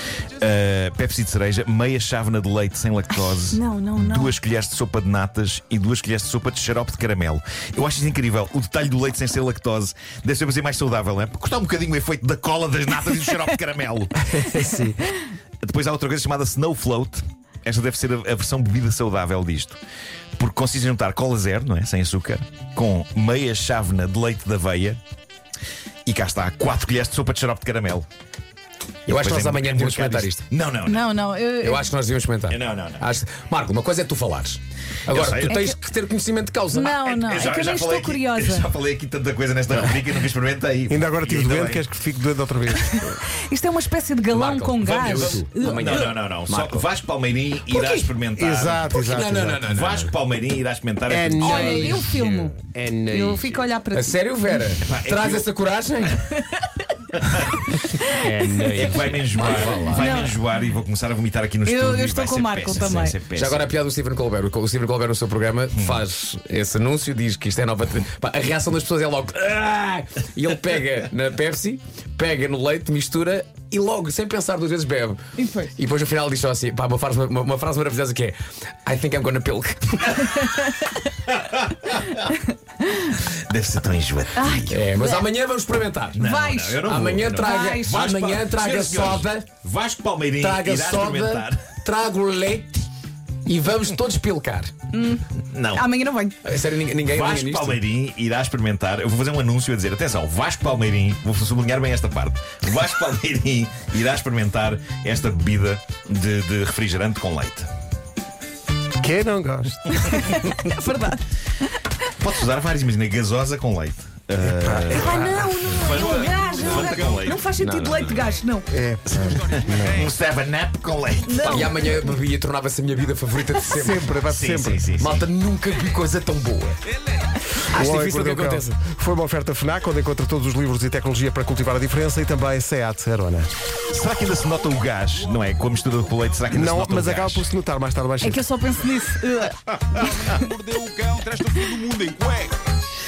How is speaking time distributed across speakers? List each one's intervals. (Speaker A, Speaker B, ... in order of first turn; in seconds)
Speaker A: 0.4-14.8, 15.6-19.8, 20.4-25.0, 26.1-28.1, 29.1-31.1, 32.5-33.1, 35.1-35.6, 37.0-41.9, 44.9-49.0, 49.6-52.0, 54.8-55.5, 57.2-57.6, 58.8-63.8, 65.8-66.0, 81.4-82.2, 83.2-84.8, 86.2-91.6, 95.5-95.9, 97.0-107.7, 112.2-118.1, 119.8-121.9, 124.3-125.3, 133.9-137.5
Speaker B: 3.5-4.3, 30.9-31.9, 35.5-35.8, 36.7-38.7, 43.3-46.1, 51.4-54.7, 58.0-58.3, 59.9-60.4, 61.6-63.2, 75.4-75.7, 84.4-85.2, 86.2-88.0, 94.9-96.4, 109.9-111.2, 114.9-118.7, 121.3-122.0, 138.2-140.5
Speaker C: 14.4-14.9, 40.9-43.2, 48.4-49.6, 51.1-53.6, 58.2-58.8, 109.0-110.0, 114.4-116.0, 118.7-120.1, 123.7-124.8, 127.7-133.5, 136.5-138.5
Speaker D: 29.1-30.4, 31.6-37.1, 44.3-46.9, 47.7-48.1, 48.9-50.1, 53.9-56.3, 58.3-60.2, 63.3-75.2, 75.7-80.6, 84.7-86.2, 86.8-89.5, 90.4-92.8, 93.5-94.7, 96.4-97.8, 121.5-124.1, 125.0-126.8, 127.7-128.7
Speaker E: 116.0-117.2, 119.3-120.1, 126.9-127.3, 135.3-136.1, 139.9-142.7